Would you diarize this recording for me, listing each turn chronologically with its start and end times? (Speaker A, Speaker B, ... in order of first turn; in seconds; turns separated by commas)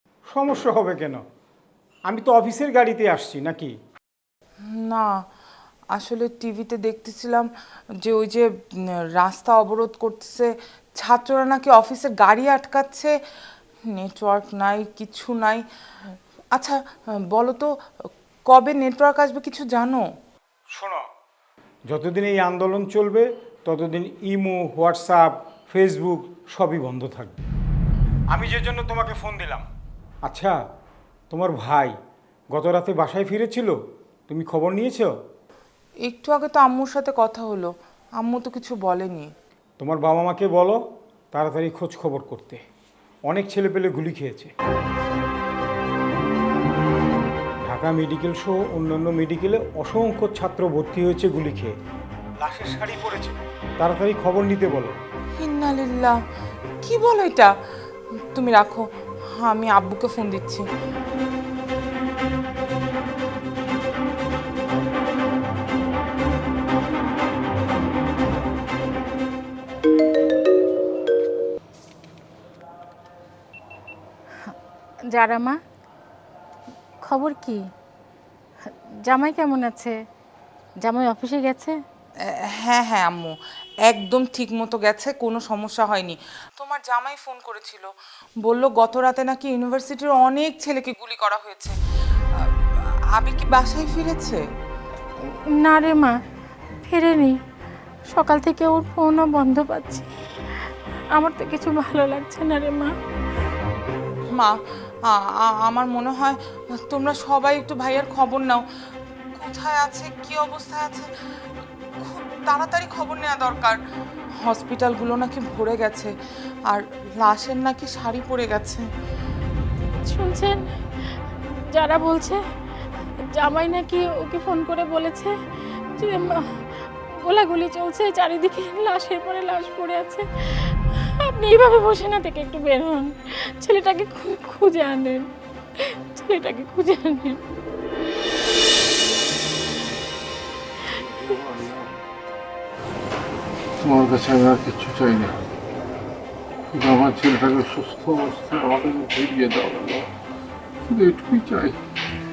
Speaker A: 0.3-1.2, Speaker A: 2.1-3.7, Speaker B: 4.8-5.1, Speaker B: 5.9-7.5, Speaker B: 8.0-8.5, Speaker B: 9.2-13.1, Speaker B: 13.9-15.6, Speaker B: 17.3-17.7, Speaker B: 18.5-20.0, Speaker A: 20.7-21.1, Speaker A: 21.9-27.4, Speaker A: 28.3-29.6, Speaker A: 30.2-30.6, Speaker A: 31.3-32.0, Speaker A: 32.5-33.8, Speaker A: 34.3-35.1, Speaker B: 36.0-39.3, Speaker A: 39.8-40.8, Speaker A: 41.3-42.6, Speaker A: 43.3-44.5, Speaker A: 47.6-51.7, Speaker A: 52.4-55.0, Speaker B: 55.4-56.2, Speaker B: 56.8-57.5, Speaker B: 58.3-58.9, Speaker B: 59.4-60.7, Speaker C: 75.1-75.6, Speaker C: 77.0-77.6, Speaker C: 78.7-80.0, Speaker C: 80.8-81.8, Speaker B: 82.2-87.9, Speaker B: 88.4-91.8, Speaker B: 92.3-94.4, Speaker C: 95.2-96.1, Speaker C: 96.8-97.4, Speaker C: 98.1-100.1, Speaker C: 101.2-102.9, Speaker B: 104.3-108.6, Speaker B: 109.3-111.1, Speaker B: 112.0-113.8, Speaker B: 114.4-116.1, Speaker B: 116.7-118.8, Speaker C: 120.0-120.6, Speaker C: 121.7-122.4, Speaker C: 123.3-125.3, Speaker C: 126.0-135.2, Speaker C: 135.8-137.4, Speaker D: 140.9-142.0, Speaker D: 143.8-145.5, Speaker D: 146.7-150.1, Speaker D: 150.8-151.8